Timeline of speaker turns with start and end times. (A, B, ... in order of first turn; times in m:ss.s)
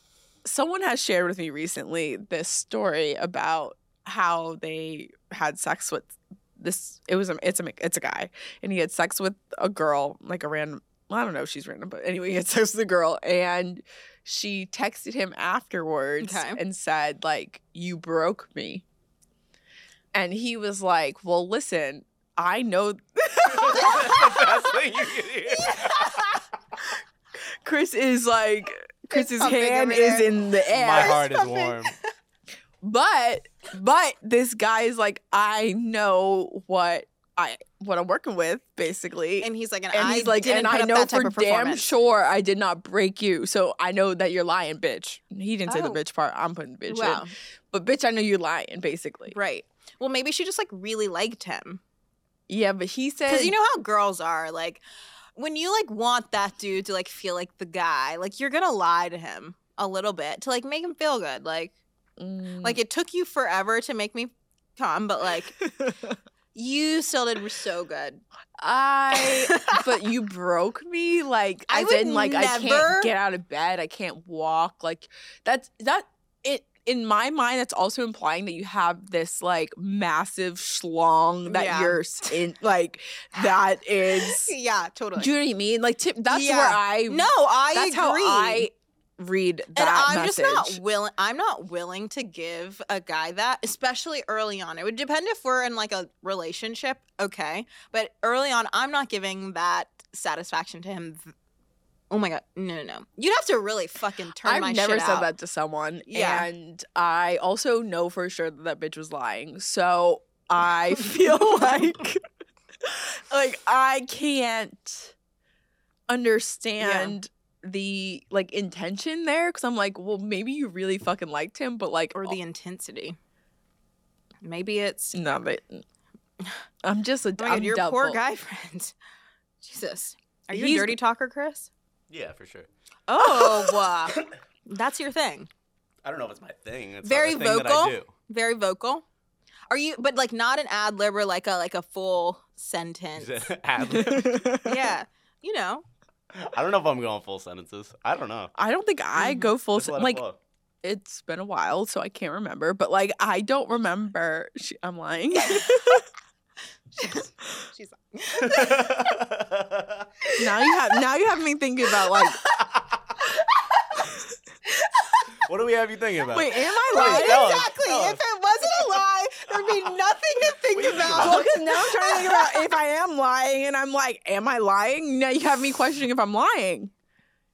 0:00.4-0:18.8 A
0:16.2-0:16.6 B
0:20.1-0:24.2 A
0:23.5-0:26.3 C
0:25.6-0:26.4 B
0:27.6-0:31.2 A
0:29.1-0:30.4 B
0:30.7-0:31.9 C
0:30.9-0:31.9 B
0:32.8-0:49.4 A
0:39.4-0:41.9 B
0:45.7-0:46.0 B
0:46.9-0:47.3 B
0:49.3-0:51.8 B
0:52.5-0:53.5 A
0:53.3-0:54.8 B
0:55.4-1:01.7 B
1:02.2-1:02.8 A
1:02.6-1:05.5 B
1:05.8-1:06.1 A
1:06.5-1:08.2 B
1:08.6-1:24.5 A
1:09.1-1:09.8 B
1:11.7-1:13.1 B
1:21.4-1:22.4 B
1:23.4-1:25.3 B
1:25.2-1:30.8 A
1:26.3-1:28.7 B
1:29.7-1:41.3 B
1:42.1-1:45.3 B
1:44.4-1:52.2 A
1:46.1-1:46.5 B
1:52.8-1:55.1 A
1:56.1-2:02.4 A
1:56.8-1:57.2 B
2:02.2-2:03.2 B
2:04.4-2:05.2 B
2:05.1-2:05.8 A
2:06.8-2:08.2 A
2:07.4-2:08.9 B
2:09.6-2:11.7 B
2:10.5-2:11.0 A
2:12.1-2:12.7 C
2:13.1-2:15.5 B
2:16.0-2:18.1 C
2:17.0-2:19.0 B
2:19.7-2:23.5 B
2:23.2-2:24.6 C
2:23.9-2:24.8 A
2:24.6-2:25.8 B
2:26.4-2:28.5 C
2:28.5-2:30.2 A
2:29.2-2:29.5 B
2:29.7-2:30.4 C
2:30.8-2:36.1 A
2:36.9-2:39.2 B
2:38.3-2:40.1 C
2:40.2-2:41.0 B
2:40.4-2:42.4 A
2:42.1-2:42.5 B
2:45.3-2:49.0 C
2:46.3-2:47.5 A
2:46.9-2:52.7 B
2:50.6-2:51.5 C
2:51.2-2:56.9 A